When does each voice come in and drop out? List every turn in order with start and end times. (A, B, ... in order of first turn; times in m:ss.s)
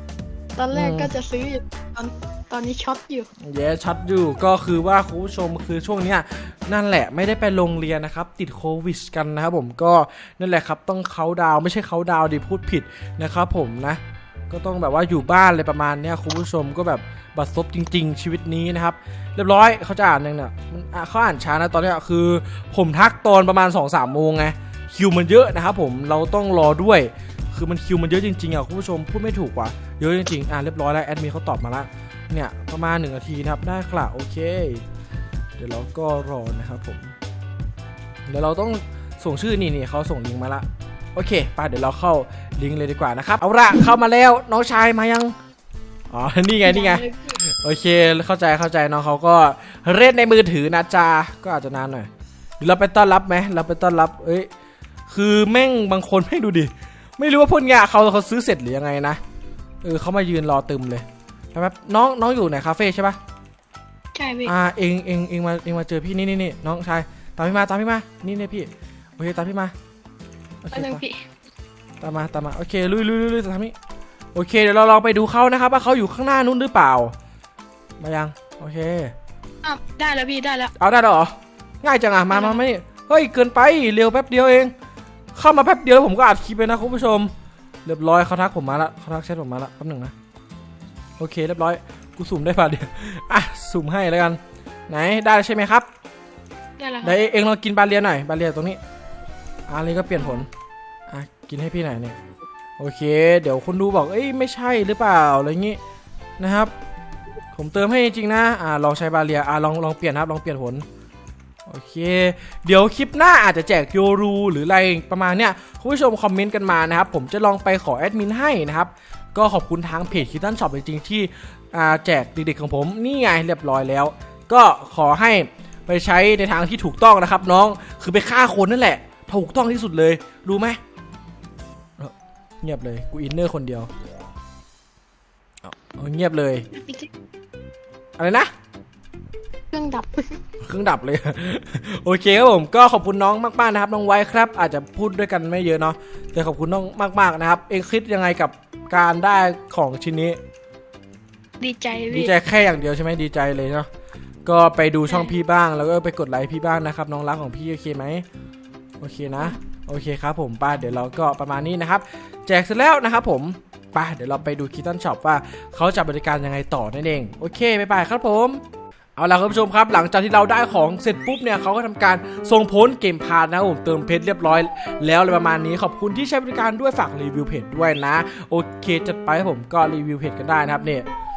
0:00.6-0:03.3 A
0:00.7-0:01.1 B
0:03.4-0:34.8 B
0:35.6-0:37.2 B
0:38.3-0:45.4 B
0:46.1-0:52.1 B
0:46.6-0:47.4 A
0:52.6-0:54.5 B
0:55.1-0:59.2 B
0:59.8-1:03.2 B
1:04.2-1:04.5 A
1:04.4-1:09.7 B
1:10.6-1:11.0 B
1:10.7-1:11.2 A
1:12.0-1:13.7 B
1:14.3-1:17.1 B
1:18.0-1:19.1 B
1:19.6-1:20.7 A
1:20.8-1:24.7 B
1:22.3-1:22.6 A
1:25.4-1:27.3 B
1:27.8-1:30.1 B
1:31.2-1:35.9 B
1:36.8-1:37.2 A
1:37.0-1:38.8 B
1:39.7-1:40.5 B
1:40.2-1:40.4 A
1:41.1-1:42.2 B
1:42.8-1:45.8 B
1:46.4-1:46.7 B
1:47.5-1:50.8 B
1:51.7-2:10.8 B
2:12.0-2:13.9 B
2:15.6-2:16.7 B
2:16.7-2:17.1 A
2:18.2-2:18.5 B
2:19.7-2:20.4 A
2:20.6-2:30.4 B
2:31.6-2:32.3 A
2:32.1-2:33.9 B
2:34.4-2:38.3 B
2:35.1-2:35.3 A
2:39.0-2:48.6 B
2:49.2-3:01.1 B